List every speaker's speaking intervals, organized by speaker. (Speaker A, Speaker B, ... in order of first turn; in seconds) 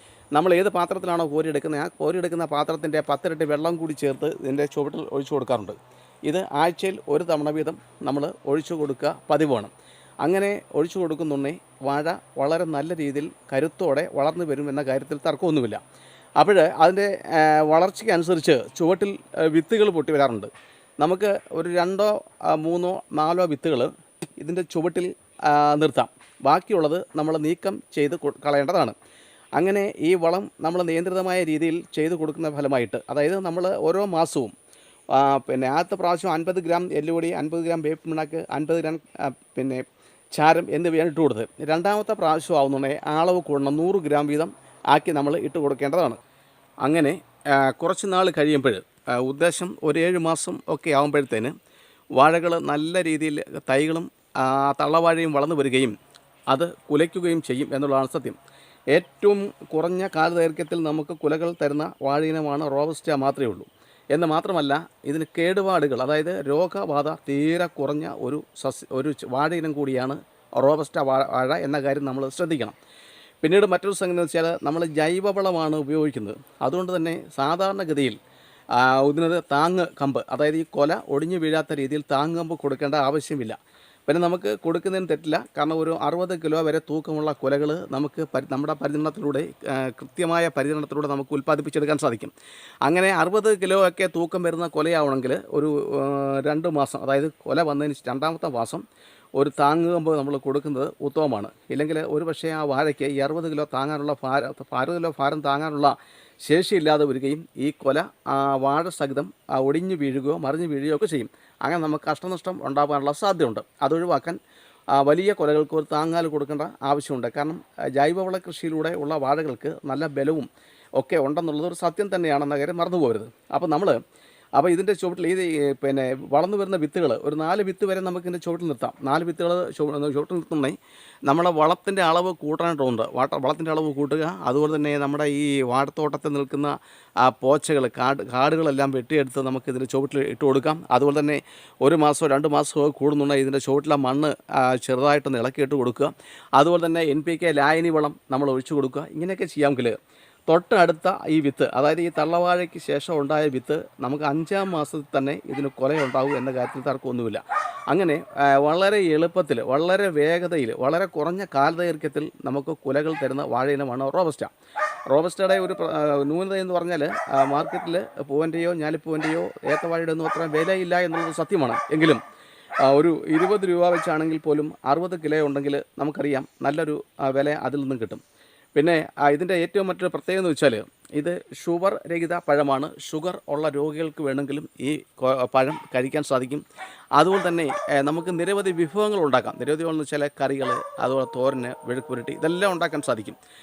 Speaker A: 0.3-15.8, 16.4-28.9, 29.6-34.5, 35.1-39.8, 40.4-46.2, 46.8-51.5, 52.2-56.0, 56.5-58.4, 58.9-72.8, 73.4-78.2, 78.7-92.3, 92.8-98.8, 99.4-114.4, 114.9-124.0, 124.6-150.0, 150.5-164.5, 165.1-172.2, 172.8-178.2, 178.8-186.6, 187.2-193.4